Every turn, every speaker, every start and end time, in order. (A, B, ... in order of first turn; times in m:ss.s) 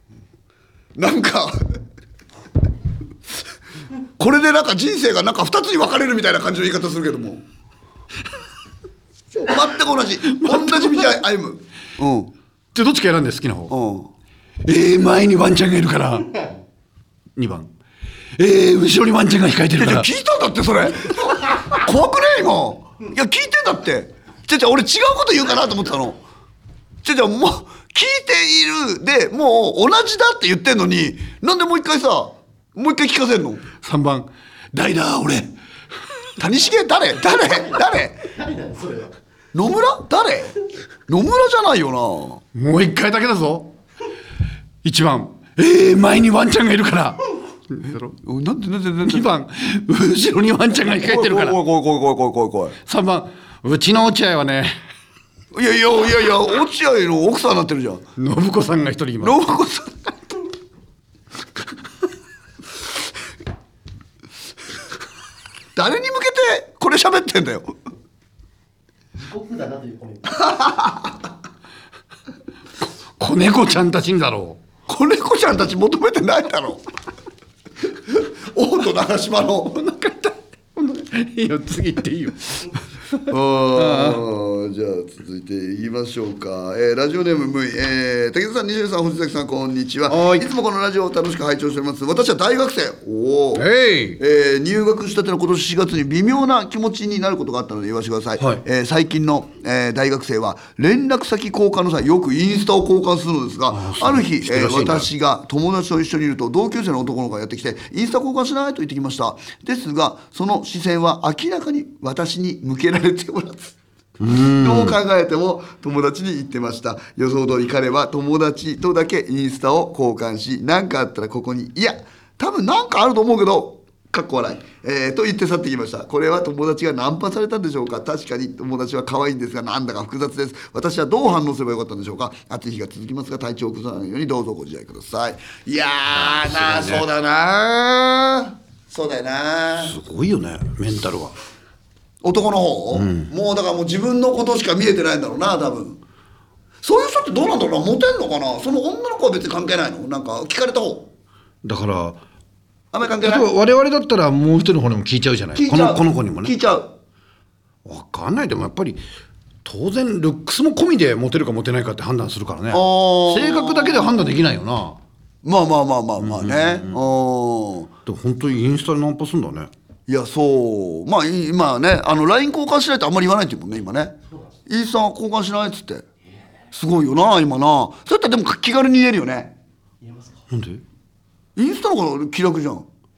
0:01.0-0:01.8 A
0:04.2-0:07.4 A
0:09.3-0:12.3 A
0:10.3-0:11.2 B
0:12.7-0:13.7 B
0:13.7-0:14.1 A
0:14.6-0:16.4 B
0:17.4-0:17.7 B
0:18.4-0:20.1 B
0:19.8-0:26.2 A
0:27.0-0:33.6 A
0:33.8-0:35.5 B
0:36.4-0:38.2 A
0:37.3-0:39.1 C
0:39.5-0:40.6 A
0:41.1-0:42.4 A
0:42.5-0:43.8 B
0:44.8-0:48.1 B
0:48.2-0:49.3 A
0:49.0-0:51.6 B
0:50.9-0:52.8 A
0:52.9-0:54.7 B
0:55.5-0:58.0 A
0:58.2-0:59.4 B
0:59.2-1:00.1 A
1:05.8-1:07.7 A
1:09.1-1:10.8 C
1:10.4-1:11.1 A
1:13.2-1:14.6 B
1:14.9-1:16.8 A
1:18.1-1:19.8 A
1:19.7-1:23.2 B
1:23.3-1:33.7 A
1:23.7-1:24.2 B
1:30.1-1:30.5 B
1:33.6-1:34.2 B
1:34.2-1:53.8 A
1:43.7-1:45.1 B
1:54.2-1:55.0 B
1:54.3-2:20.0 A
2:16.1-2:17.1 B
2:19.8-2:21.4 B
2:22.2-2:26.0 A
2:22.9-2:23.3 B
2:26.8-2:31.1 A
2:31.6-2:32.2 B
2:32.9-2:33.5 A
2:33.2-2:36.5 B
2:35.6-2:36.9 A
2:37.8-2:39.0 B
2:39.6-2:45.0 B
2:42.7-2:44.3 A
2:45.4-2:47.9 A
2:46.2-2:47.0 B
2:48.1-2:49.7 B
2:50.1-2:54.2 A
2:54.7-2:56.0 A
2:56.7-2:59.5 A
3:00.0-3:00.4 C
3:00.5-3:00.8 B
3:01.6-3:02.9 A